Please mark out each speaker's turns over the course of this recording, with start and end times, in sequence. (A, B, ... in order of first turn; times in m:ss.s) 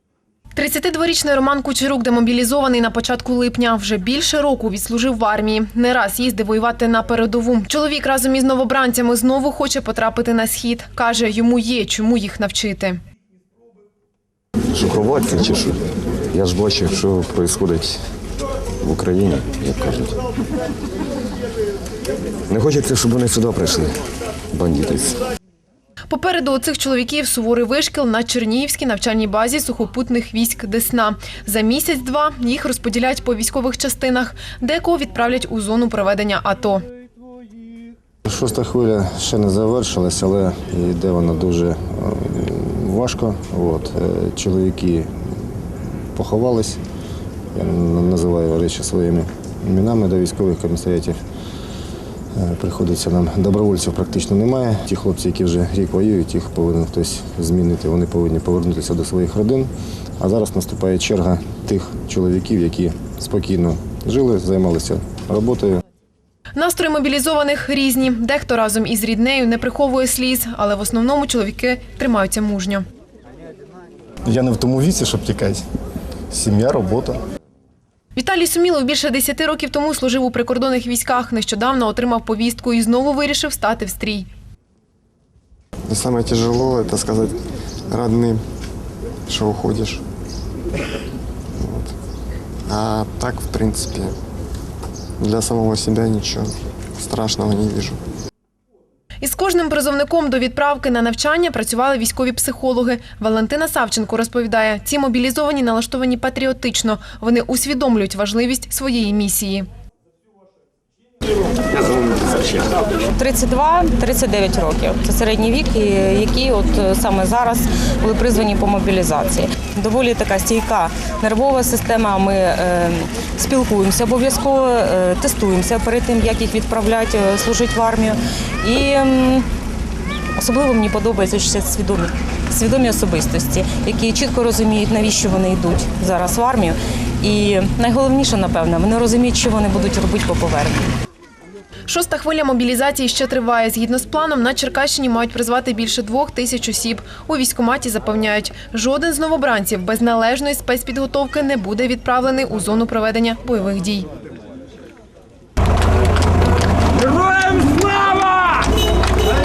0:00.6-0:13.0 A
0:14.7-0:15.8 B
0:16.3-0:18.0 B
0:18.8-0:20.2 B
0:22.5-0:24.0 B
0:24.5-0:25.2 B
0:26.1-0:36.8 A
0:38.3-0:45.5 C
0:46.1-0:46.8 C
0:47.5-0:51.2 C
0:52.4-1:05.8 C
1:06.6-1:12.8 A
1:14.2-1:15.7 D
1:16.3-1:17.2 D
1:18.2-1:24.3 A
1:25.9-1:27.4 E
1:27.9-1:28.4 E
1:29.3-1:30.0 E
1:31.6-1:32.0 E
1:32.7-1:34.2 E
1:35.2-1:38.0 E
1:39.2-1:49.7 A
1:53.2-2:09.5 F
2:10.4-2:20.9 F
2:21.9-2:34.1 A